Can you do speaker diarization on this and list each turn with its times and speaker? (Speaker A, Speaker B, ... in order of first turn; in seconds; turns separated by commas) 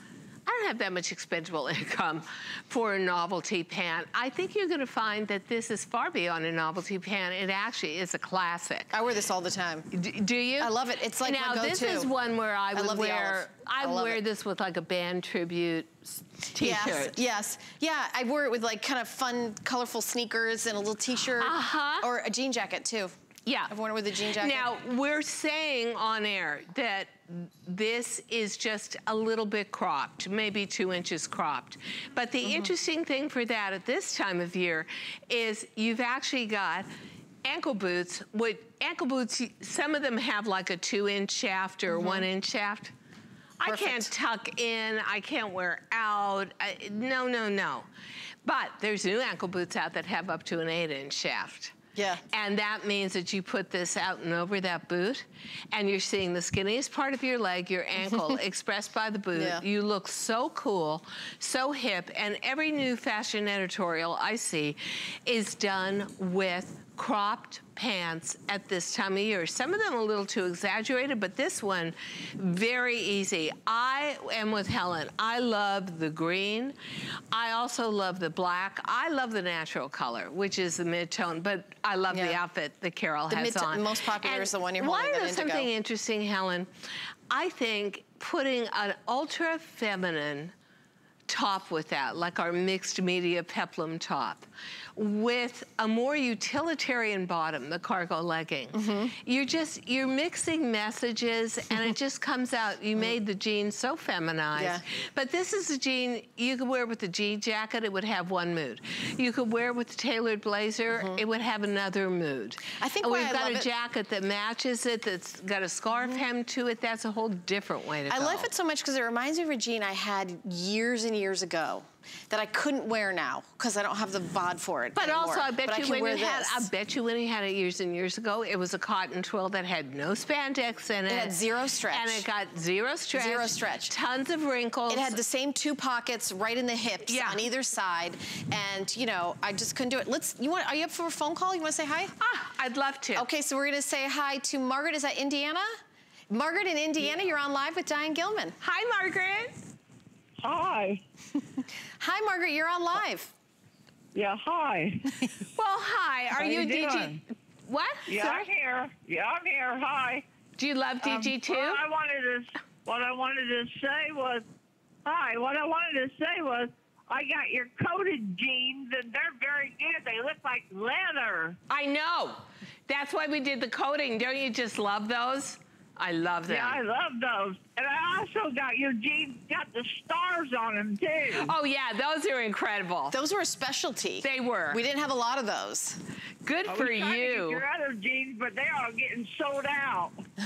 Speaker A: 0.5-8.9, Speaker B: 8.9-9.9, Speaker A: 9.9-17.2, Speaker B: 10.6-12.1, Speaker B: 12.7-14.2, Speaker B: 16.6-23.1, Speaker A: 21.4-22.1, Speaker A: 23.4-36.9, Speaker B: 23.7-24.6, Speaker B: 32.4-32.7, Speaker A: 37.4-42.9, Speaker B: 41.9-42.2, Speaker A: 43.6-47.9, Speaker B: 43.6-44.1, Speaker A: 48.4-51.7, Speaker B: 51.9-52.2, Speaker A: 52.3-76.8, Speaker B: 59.4-59.6, Speaker A: 77.3-86.7, Speaker B: 82.1-82.4, Speaker B: 83.3-85.7, Speaker A: 87.3-90.5, Speaker A: 91.3-118.5, Speaker B: 98.7-99.1, Speaker B: 104.5-104.8, Speaker B: 112.8-113.7, Speaker B: 118.1-126.7, Speaker A: 124.9-131.4, Speaker B: 131.1-132.2, Speaker A: 131.9-135.2, Speaker B: 133.1-133.9, Speaker B: 134.9-142.1, Speaker A: 137.1-137.4, Speaker A: 142.2-143.2, Speaker B: 143.1-145.7, Speaker B: 146.3-148.6, Speaker A: 148.6-149.5, Speaker C: 150.4-151.0, Speaker B: 152.0-153.3, Speaker C: 154.1-155.2, Speaker A: 155.6-158.5, Speaker C: 156.4-157.2, Speaker C: 158.1-160.2, Speaker A: 160.6-161.8, Speaker C: 161.0-164.4, Speaker C: 165.0-171.6, Speaker A: 171.7-176.8, Speaker C: 176.5-181.5, Speaker A: 181.3-183.2, Speaker B: 183.1-186.0, Speaker A: 184.2-184.8, Speaker A: 186.4-187.6, Speaker C: 186.7-190.2